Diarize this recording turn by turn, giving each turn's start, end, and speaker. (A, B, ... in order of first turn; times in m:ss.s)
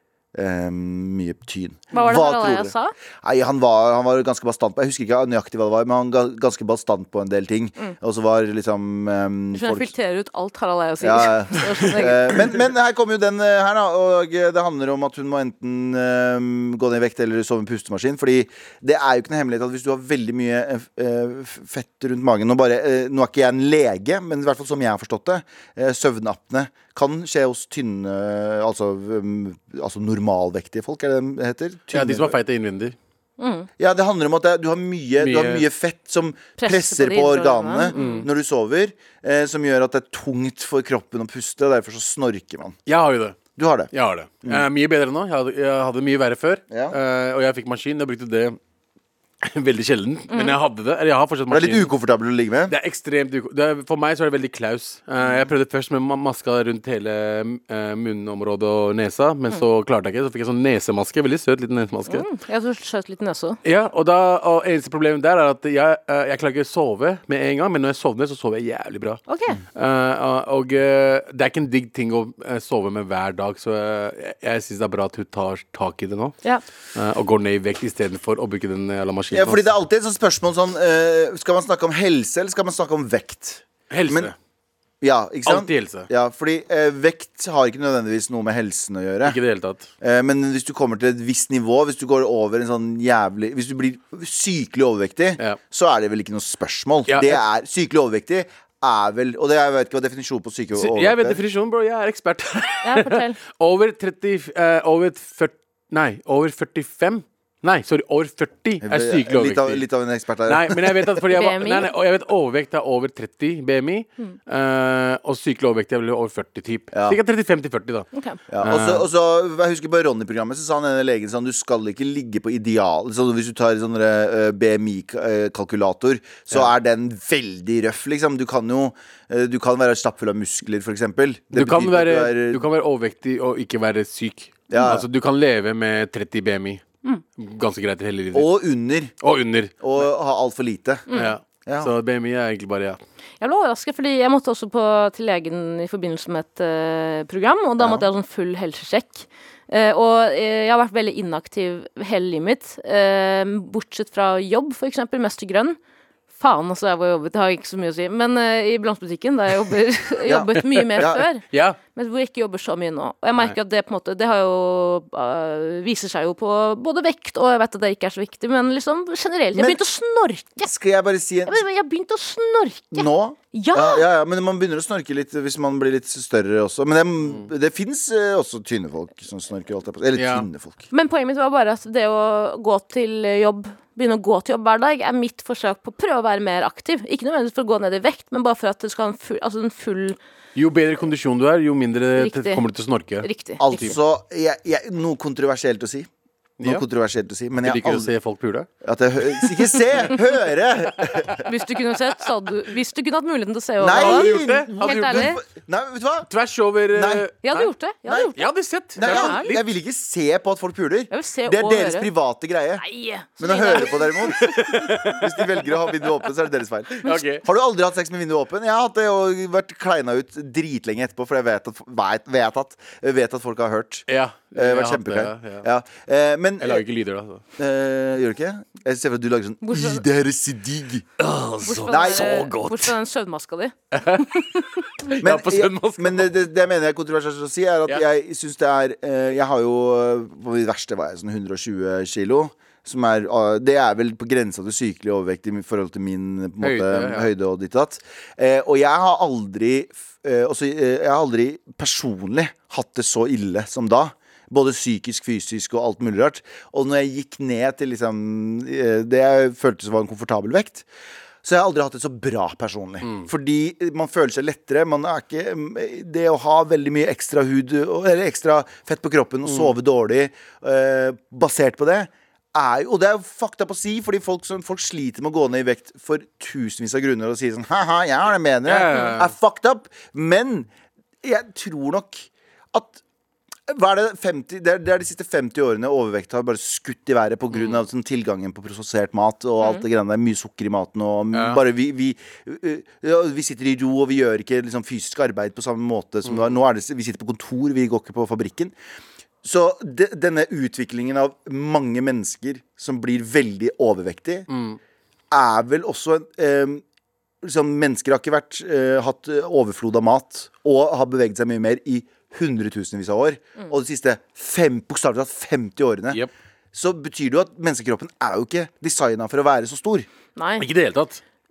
0:00.4-0:09.9 A
0:01.9-0:02.9 B
0:09.6-0:12.4 B
0:11.0-0:32.4 A
0:31.9-0:33.0 C
0:33.4-0:33.7 B
0:33.8-0:42.8 A
0:35.2-0:35.7 C
0:36.6-0:38.3 B
0:38.0-0:38.3 C
0:42.9-0:43.4 C
0:43.6-0:43.9 A
0:43.9-0:48.6 C
0:46.7-0:47.0 A
0:49.4-0:51.9 C
0:50.3-0:50.6 B
0:51.5-0:52.8 A
0:52.7-1:02.3 C
1:02.1-1:03.6 B
1:03.6-1:09.2 C
1:09.3-1:09.6 B
1:09.8-1:16.4 C
1:17.0-1:19.6 C
1:19.3-1:24.3 A
1:23.9-1:24.4 C
1:25.0-1:29.4 A
1:25.5-1:26.1 C
1:29.2-1:29.9 C
1:30.0-1:41.4 A
1:37.1-1:37.4 C
1:40.8-1:49.8 C
1:42.8-1:43.4 B
1:48.8-1:51.1 A
1:50.5-1:58.1 C
1:51.3-1:51.9 B
1:56.9-1:57.2 A
1:58.5-2:12.6 A
1:58.6-1:59.0 C
2:11.5-2:16.8 C
2:14.7-2:15.0 A
2:17.4-2:18.6 C
2:18.3-2:19.1 A
2:19.2-2:20.1 C
2:19.8-2:21.1 A
2:21.1-2:21.3 B
2:21.1-2:23.0 C
2:21.7-2:21.9 A
2:23.4-2:35.8 B
2:27.8-2:28.1 A
2:36.4-2:50.7 B
2:40.3-2:41.2 A
2:41.5-2:41.8 C
2:49.5-2:49.8 A
2:50.6-2:51.6 A
2:51.5-2:54.0 B
2:52.9-3:00.9 A
3:00.2-3:00.5 C
3:00.9-3:10.2 B
3:10.6-3:13.9 C
3:12.2-3:12.6 B
3:13.2-3:14.0 B
3:13.6-3:16.1 A
3:16.6-3:18.1 A
3:17.6-3:18.7 C
3:18.8-3:21.4 A
3:19.3-3:20.1 C
3:21.0-3:21.4 C
3:21.4-3:25.4 B
3:23.8-3:26.3 A
3:23.9-3:25.3 C
3:26.3-3:27.7 C
3:26.9-3:27.3 A
3:27.4-3:28.5 B
3:28.4-3:29.6 C
3:29.0-3:32.8 A
3:29.0-3:29.5 B
3:31.1-3:32.1 B
3:32.8-3:34.6 B
3:33.4-3:46.8 A
3:34.2-3:35.6 C
3:37.0-3:37.4 C
3:44.1-3:45.6 C
3:46.6-3:47.4 C
3:47.6-3:51.1 A
3:49.6-3:50.0 B
3:51.2-3:53.0 C
3:51.6-3:54.9 B
3:51.8-3:52.6 A
3:53.9-3:54.4 C
3:55.0-3:56.3 C
3:55.2-4:20.9 A
4:06.6-4:07.3 C
4:21.4-4:40.7 A
4:29.5-4:29.7 C
4:38.6-4:39.3 C
4:41.2-4:43.0 A
4:43.7-4:58.8 A
4:47.5-4:47.8 C
4:51.3-4:51.6 C
4:56.2-4:56.6 C
4:59.4-5:04.5 A
5:04.5-5:04.8 C
5:05.3-5:06.8 A
5:07.4-5:16.2 A
5:16.7-5:20.1 A
5:20.4-5:20.7 B
5:20.6-5:21.2 C